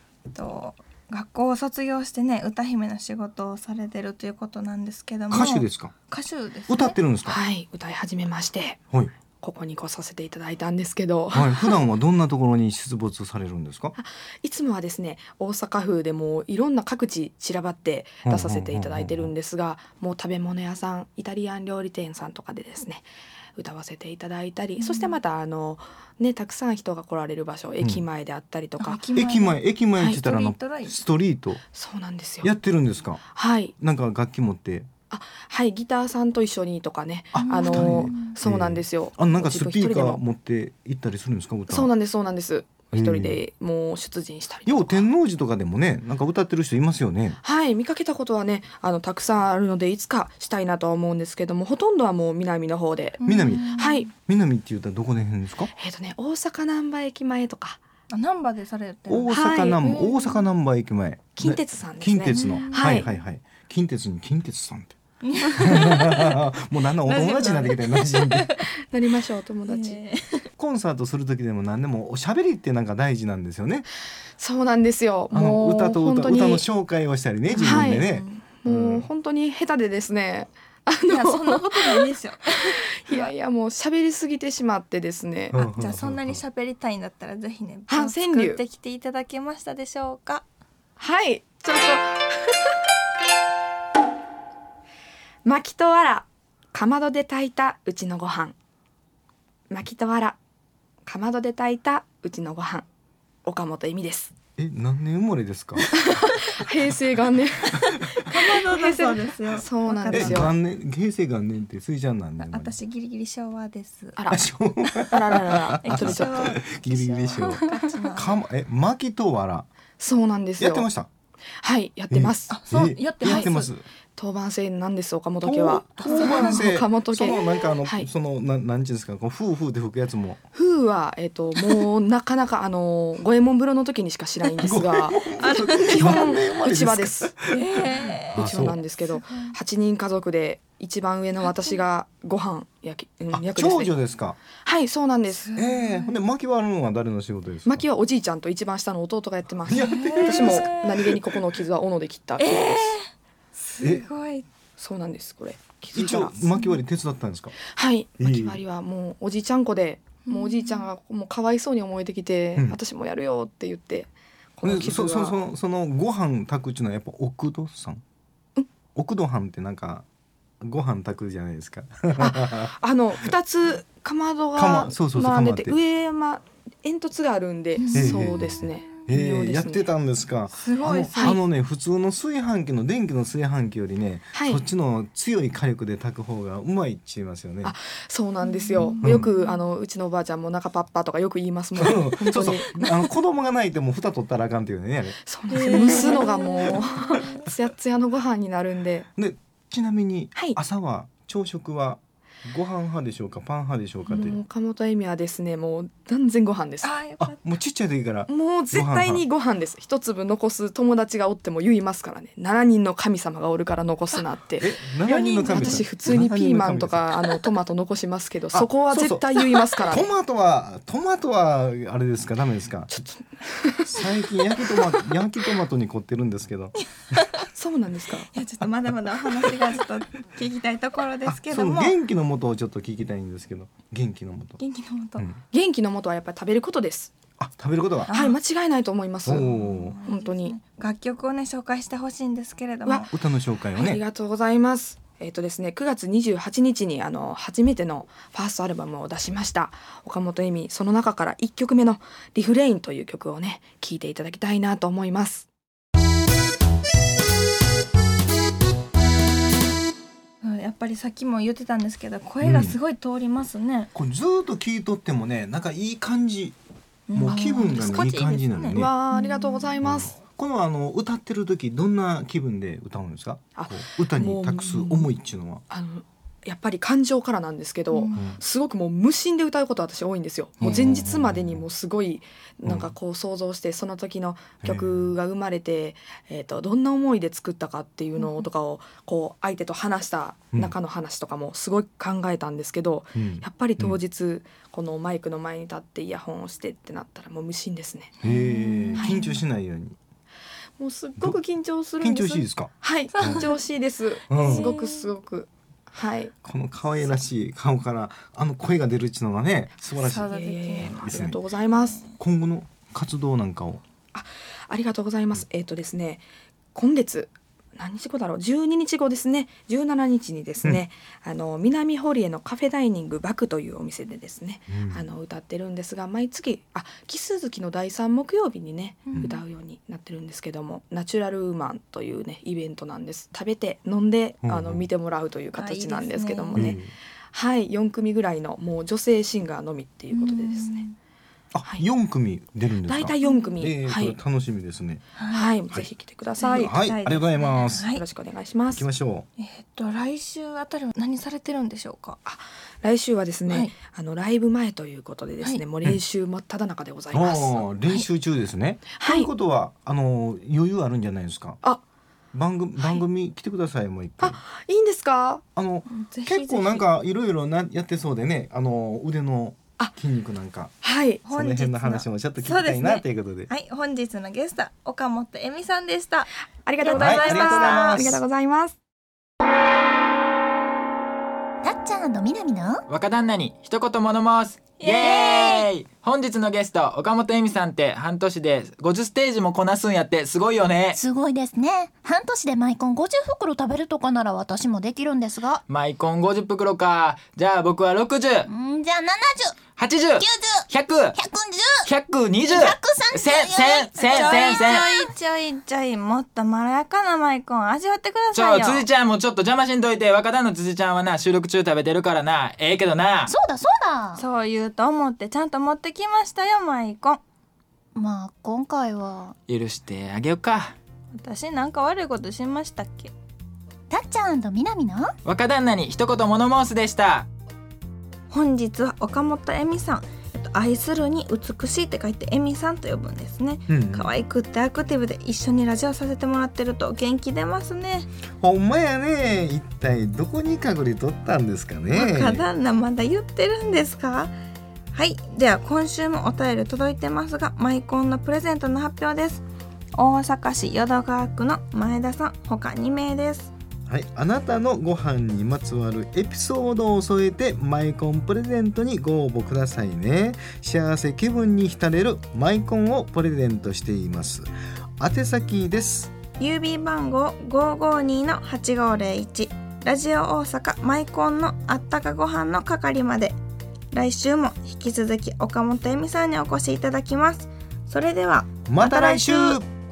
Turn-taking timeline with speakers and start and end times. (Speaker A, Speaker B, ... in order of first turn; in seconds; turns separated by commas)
Speaker A: 0.3-7.0, Speaker B: 5.3-5.9, Speaker B: 6.7-7.4, Speaker C: 7.3-8.8, Speaker C: 9.4-11.7, Speaker B: 11.3-13.9, Speaker C: 14.0-29.0, Speaker B: 18.2-19.3, Speaker A: 24.8-25.2, Speaker A: 28.8-29.6, Speaker B: 29.1-31.6, Speaker A: 30.1-31.0, Speaker C: 31.7-32.5, Speaker B: 32.4-33.2, Speaker C: 33.3-33.7, Speaker B: 33.8-34.9, Speaker C: 35.1-40.2, Speaker B: 37.3-41.9, Speaker A: 37.4-38.4, Speaker C: 41.7-45.1, Speaker B: 42.9-43.4, Speaker B: 44.7-47.4, Speaker C: 47.4-54.1, Speaker A: 53.2-54.1, Speaker B: 53.2-55.7, Speaker C: 55.8-57.8, Speaker A: 58.1-60.4, Speaker B: 59.1-65.0, Speaker C: 59.3-60.0, Speaker C: 61.3-63.1, Speaker A: 62.3-63.1, Speaker A: 65.2-66.2, Speaker B: 65.6-68.5, Speaker A: 67.1-68.6, Speaker C: 68.9-70.0, Speaker A: 69.7-70.5, Speaker B: 70.6-73.9, Speaker C: 74.4-76.7, Speaker B: 75.3-79.1, Speaker A: 77.5-78.4, Speaker C: 77.6-82.1, Speaker A: 81.1-83.3, Speaker C: 82.9-85.7, Speaker B: 85.5-86.4, Speaker A: 85.7-90.4, Speaker C: 87.9-88.6, Speaker C: 91.0-92.7, Speaker C: 95.5-98.5, Speaker C: 99.7-100.4, Speaker C: 101.1-102.9, Speaker C: 103.5-104.3, Speaker B: 104.6-106.5, Speaker C: 106.0-110.5, Speaker A: 108.2-110.5, Speaker B: 110.1-112.8, Speaker A: 112.4-114.2, Speaker C: 114.2-114.4, Speaker B: 114.3-119.7, Speaker C: 115.1-116.5, Speaker A: 115.8-118.4, Speaker C: 120.0-120.9, Speaker B: 120.6-121.1, Speaker C: 121.6-122.6, Speaker B: 122.1-123.8, Speaker A: 122.5-123.7, Speaker C: 123.2-123.5, Speaker C: 124.2-128.1, Speaker B: 125.4-130.4, Speaker A: 126.0-126.6, Speaker C: 130.6-137.3, Speaker B: 134.6-138.8, Speaker A: 135.4-136.3, Speaker A: 137.5-139.6, Speaker C: 138.3-143.9, Speaker A: 141.4-141.8, Speaker B: 143.3-144.4, Speaker C: 144.6-145.5, Speaker A: 145.3-146.1, Speaker B: 145.6-147.8, Speaker C: 147.7-152.9, Speaker B: 149.7-151.3, Speaker A: 149.8-150.9, Speaker A: 152.4-154.4, Speaker B: 153.8-154.1, Speaker C: 154.8-156.4, Speaker B: 155.9-157.6, Speaker C: 157.7-165.4, Speaker B: 158.2-158.6, Speaker A: 160.2-160.9, Speaker B: 164.6-168.0, Speaker B: 168.9-170.1, Speaker B: 170.6-172.7, Speaker C: 172.2-179.9, Speaker B: 174.6-175.8, Speaker A: 177.8-178.4, Speaker B: 177.9-187.8, Speaker A: 180.6-181.4, Speaker C: 184.3-184.6, Speaker C: 187.6-193.0, Speaker A: 188.4-189.6, Speaker B: 189.0-189.3, Speaker B: 191.8-196.7, Speaker C: 195.2-199.1, Speaker A: 195.5-197.4, Speaker B: 199.2-204.4, Speaker C: 204.1-206.9, Speaker A: 206.8-207.4, Speaker B: 207.2-209.2, Speaker C: 208.3-220.1, Speaker B: 214.6-217.2, Speaker A: 215.1-216.2, Speaker B: 218.5-219.3, Speaker B: 219.8-223.0, Speaker C: 222.9-223.9, Speaker B: 223.8-226.8, Speaker C: 227.5-228.3, Speaker A: 228.3-231.9, Speaker B: 231.2-234.6, Speaker A: 234.6-235.2, Speaker C: 235.5-237.1, Speaker B: 237.4-238.1, Speaker A: 238.1-238.4, Speaker C: 238.1-240.6, Speaker B: 239.2-240.0, Speaker A: 239.5-243.1, Speaker C: 242.8-243.1, Speaker B: 243.1-244.0, Speaker C: 243.7-255.5, Speaker A: 260.4-263.9, Speaker B: 262.4-262.8, Speaker B: 263.9-266.6, Speaker A: 267.1-269.7, Speaker B: 267.1-268.9, Speaker C: 267.2-268.1, Speaker C: 268.7-270.1, Speaker B: 269.8-275.6, Speaker C: 273.6-275.1, Speaker C: 275.7-298.2, Speaker B: 278.1-278.4, Speaker B: 280.6-281.6, Speaker B: 282.6-282.9, Speaker B: 284.6-285.1, Speaker B: 293.2-294.0, Speaker B: 298.2-299.9, Speaker A: 298.7-299.2, Speaker C: 298.9-299.3, Speaker C: 300.8-306.3, Speaker B: 302.0-303.5, Speaker A: 303.1-303.6, Speaker B: 304.3-304.7, Speaker A: 304.3-305.1, Speaker B: 306.4-311.4, Speaker A: 310.0-311.0, Speaker C: 310.1-312.0, Speaker B: 312.2-313.8, Speaker C: 314.1-336.8, Speaker B: 324.7-325.0, Speaker A: 329.1-329.4, Speaker B: 329.1-329.4, Speaker B: 334.4-334.9, Speaker A: 335.5-336.8, Speaker B: 336.5-336.9, Speaker C: 337.3-340.9, Speaker A: 340.1-340.9, Speaker B: 341.5-345.0, Speaker C: 342.9-344.2, Speaker A: 343.2-343.6, Speaker A: 345.2-345.6, Speaker C: 345.3-346.9, Speaker A: 346.4-348.0, Speaker B: 346.5-347.9, Speaker C: 347.8-348.9, Speaker B: 348.7-349.3, Speaker A: 349.4-352.2, Speaker C: 352.2-357.7, Speaker B: 357.1-361.6, Speaker C: 358.9-359.3, Speaker B: 362.3-364.4, Speaker C: 364.2-365.4, Speaker B: 365.6-370.8, Speaker A: 365.9-366.9, Speaker C: 370.8-371.3, Speaker A: 371.2-376.3, Speaker B: 371.3-373.5, Speaker C: 376.6-378.8, Speaker A: 376.8-378.1, Speaker B: 376.9-378.2, Speaker D: 381.6-382.8, Speaker E: 382.9-391.0, Speaker A: 384.8-385.1, Speaker D: 385.0-385.7, Speaker D: 390.9-395.6, Speaker E: 395.7-398.5, Speaker D: 398.5-399.6, Speaker E: 399.8-401.2, Speaker D: 400.2-401.9, Speaker E: 401.9-405.0, Speaker D: 402.5-404.7, Speaker A: 404.0-408.9, Speaker E: 408.3-413.4, Speaker D: 413.3-414.2, Speaker A: 414.1-417.2, Speaker D: 418.0-419.3, Speaker E: 419.5-420.7, Speaker A: 421.1-423.1, Speaker D: 423.9-425.1, Speaker E: 425.2-427.2, Speaker A: 428.3-438.1, Speaker B: 433.7-434.1, Speaker B: 438.4-442.4, Speaker A: 441.9-444.3, Speaker A: 444.9-449.4, Speaker A: 450.0-453.5, Speaker B: 453.9-466.1, Speaker A: 466.4-473.4, Speaker A: 473.9-479.6, Speaker B: 478.7-479.6